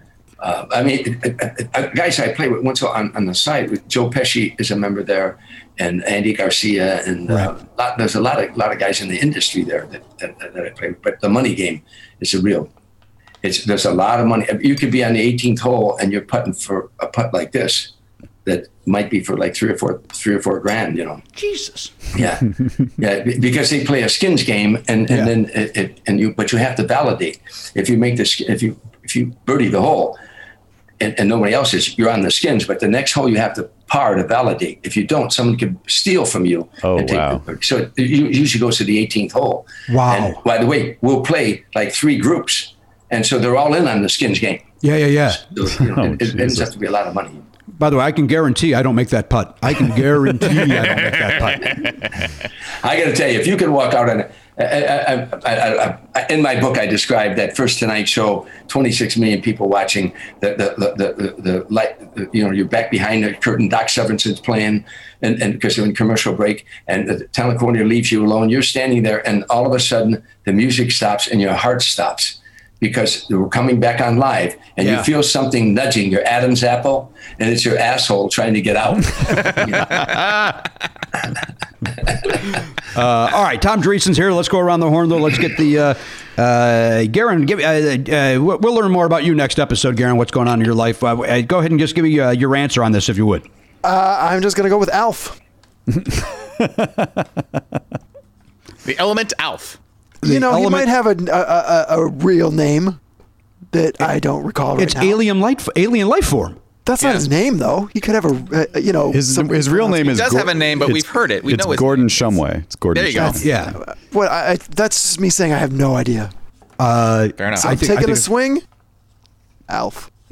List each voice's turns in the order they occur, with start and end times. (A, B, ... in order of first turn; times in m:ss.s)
0:00.4-0:12.7 A
0:13.4-0:17.9 A
0:18.4-0:21.2 A
0:21.3-0:22.0 B
0:22.1-0:30.2 A
0:31.0-0:44.6 A
0:36.8-0:37.4 C
0:39.9-0:40.4 B
0:44.8-0:45.4 B
0:45.5-0:47.4 A
0:45.7-0:46.7 C
0:47.8-0:51.8 B
0:52.8-1:20.0 A
1:19.4-1:20.6 D
1:22.1-1:22.4 A
1:22.9-1:33.4 B
1:33.8-1:35.4 E
1:35.9-1:37.2 C
1:38.8-1:39.8 D
1:40.2-1:43.0 E
1:40.2-1:40.9 B
1:43.7-1:45.2 E
1:44.8-1:46.6 B
1:46.8-1:50.3 E
1:49.1-1:53.4 C
1:50.0-1:52.4 D
1:52.9-1:53.4 D
1:53.2-1:56.3 E
1:53.4-1:53.8 B
1:56.8-1:58.2 B
1:57.4-1:57.8 D
1:57.5-1:58.6 E
1:59.7-2:00.1 E